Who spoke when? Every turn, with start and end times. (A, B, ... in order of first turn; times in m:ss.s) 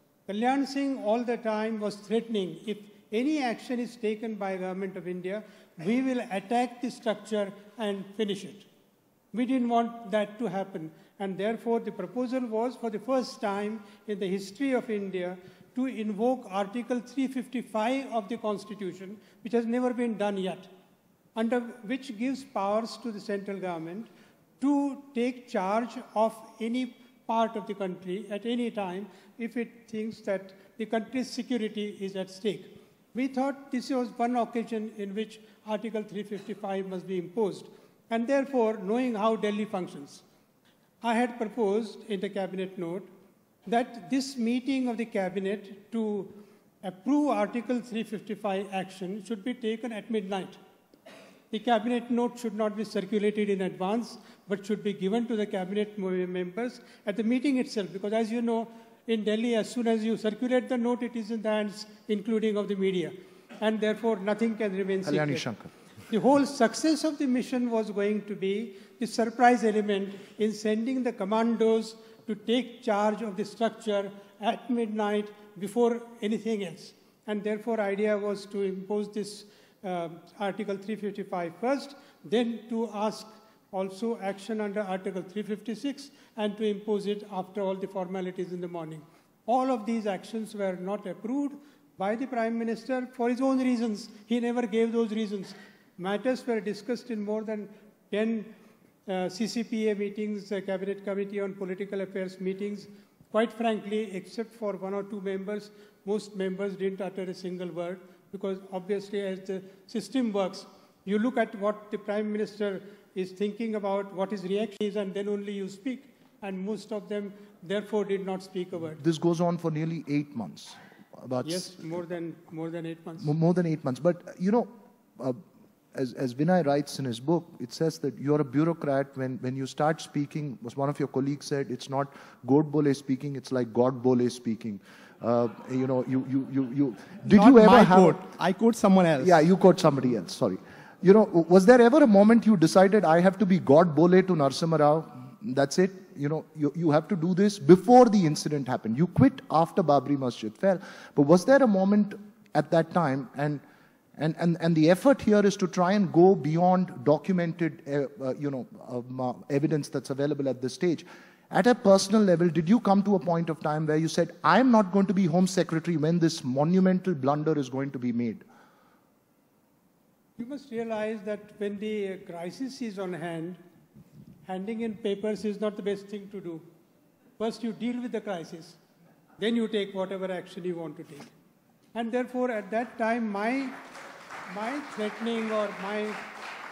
0:00.3-0:08.7 A
0:09.3-0:20.7 A
0:21.4-0:24.1 A
0:24.6-0:40.2 A
0:41.0-0:43.1 A
0:43.7-0:50.6 A
0:51.5-1:05.5 A
1:05.1-1:05.7 B
1:06.1-1:38.6 A
1:39.1-1:59.0 A
1:59.0-2:01.9 B
2:01.4-2:03.3 A
2:03.2-2:05.4 B
2:05.9-2:18.2 B
2:17.3-2:19.4 C
2:19.2-2:33.6 B
2:34.2-2:48.4 B
2:50.4-2:53.6 A
2:54.4-2:56.6 A
2:57.4-2:58.8 A
2:59.4-3:01.3 A
3:01.9-3:03.8 A
3:04.5-3:06.2 A